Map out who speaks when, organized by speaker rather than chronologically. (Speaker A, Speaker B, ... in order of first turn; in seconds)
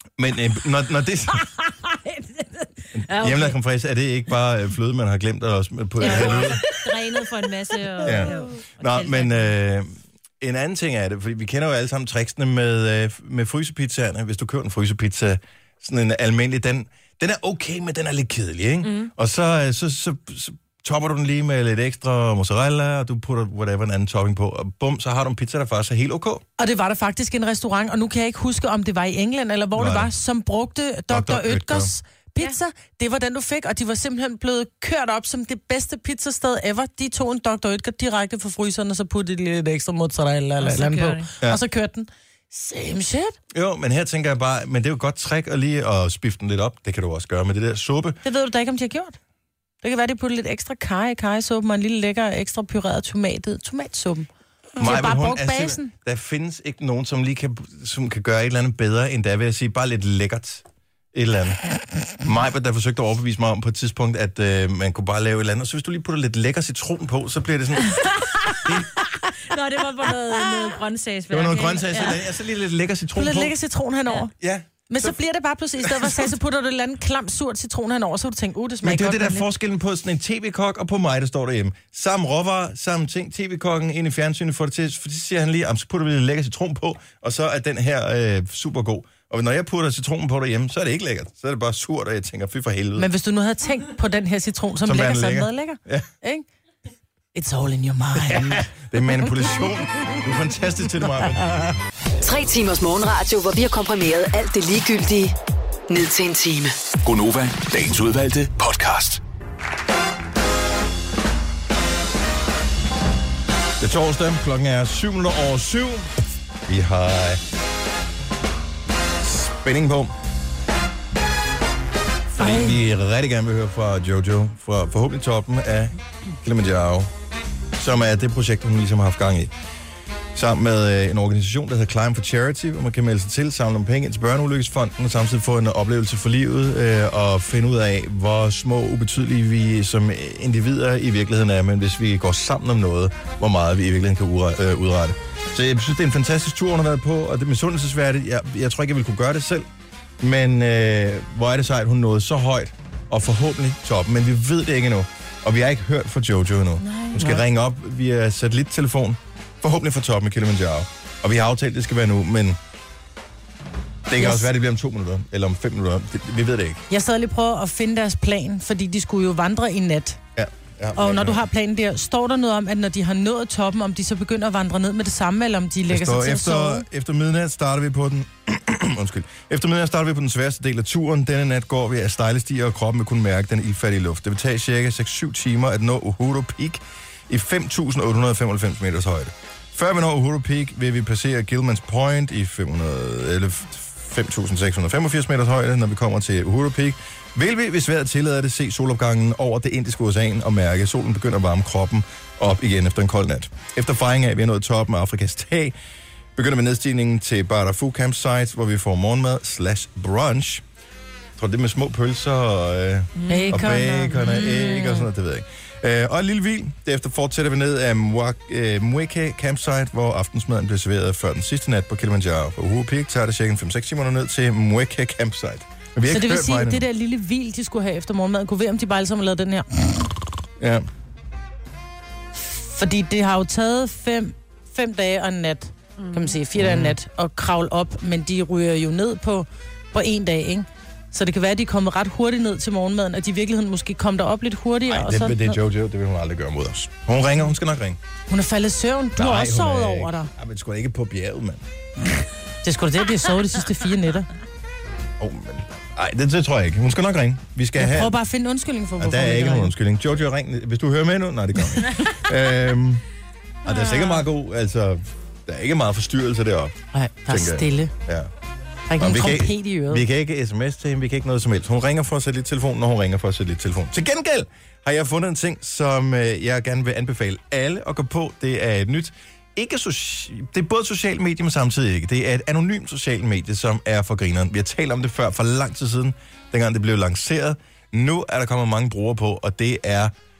Speaker A: 0.2-1.5, 2.9-6.6, 8.0-26.4, 29.8-30.1, 31.1-31.9, 43.5-48.2, 54.8-61.6, 62.2-68.9, 71.3-73.5, 74.4-75.1, 78.8-93.1, 94.8-96.1, 98.2-101.8, 113.8-116.1, 116.7-117.4, 119.2-120.1, 122.3-127.1, 127.8-129.5, 130.3-149.7, 150.2-162.6, 164.1-166.8, 170.3-171.4, 175.9-205.7, 206.3-210.6, 211.4-226.8, 230.6-230.8, 236.6-236.9, 244.9-248.0, 249.2-251.6, 255.2-258.1, 259.0-263.0, 263.6-266.7, 267.3-268.3, 269.0-290.1
Speaker B: 1.7-3.5, 6.0-9.5, 18.8-19.1, 40.6-41.3, 67.9-68.6, 69.3-72.2, 156.8-157.2, 213.2-213.7, 236.0-236.4, 263.7-264.1
Speaker C: 26.6-43.4, 48.2-49.2, 49.8-55.9, 73.1-74.3, 74.9-79.5, 93.0-96.5, 97.3-99.6, 101.0-101.7, 122.3-122.8, 157.2-157.4, 164.2-164.5, 166.9-170.2, 170.9-176.9, 213.3-215.1, 226.1-230.1, 232.5-245.6, 248.3-250.3, 252.6-254.3, 257.8-259.7, 266.9-267.9, 268.9-270.0
Speaker D: 102.2-105.3, 105.9-106.8
Speaker E: 107.0-109.2